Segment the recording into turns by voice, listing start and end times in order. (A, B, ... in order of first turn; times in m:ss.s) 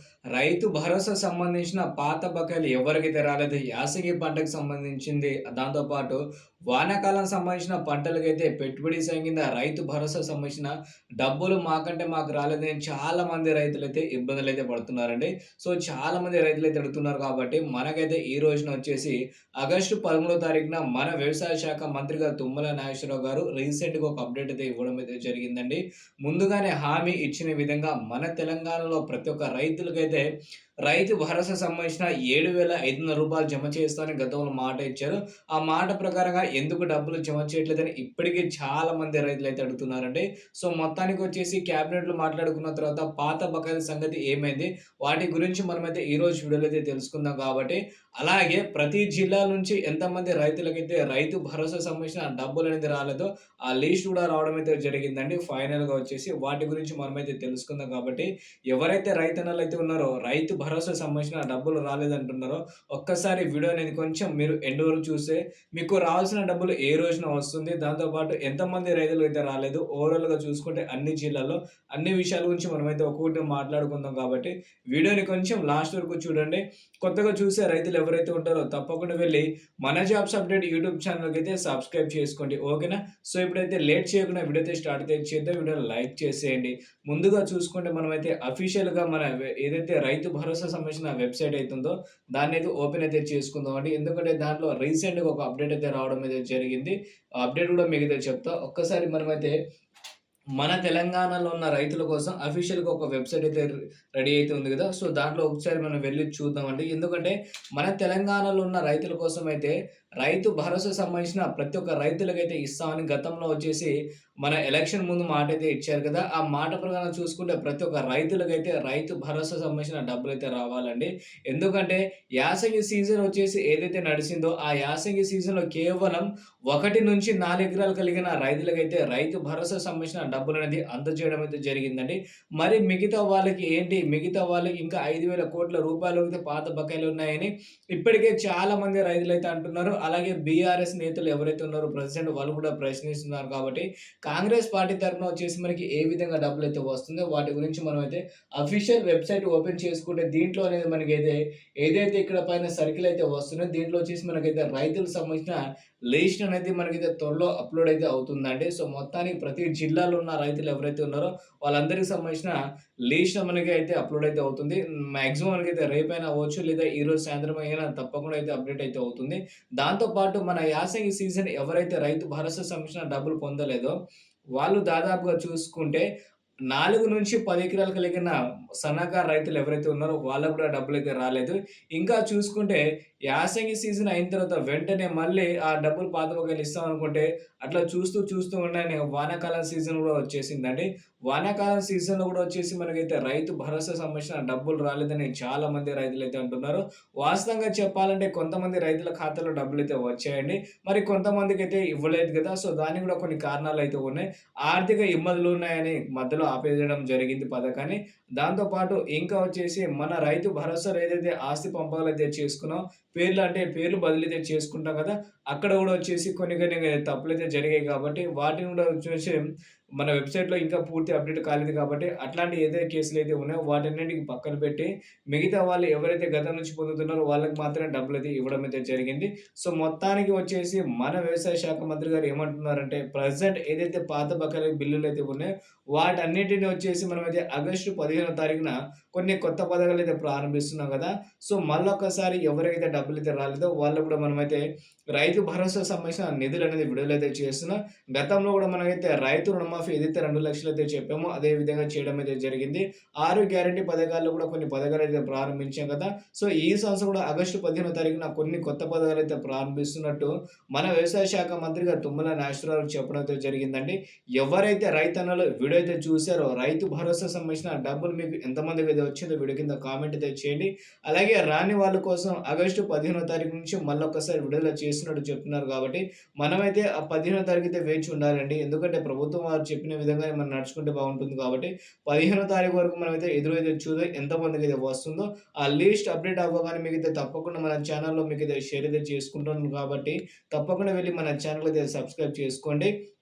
0:00.3-0:30.2 A
0:30.8-1:39.5 A
1:40.6-2:42.6 A
2:43.1-2:53.9 A
2:54.6-2:56.0 A
2:56.7-3:39.4 A
3:40.0-4:04.6 A
4:05.1-4:52.9 A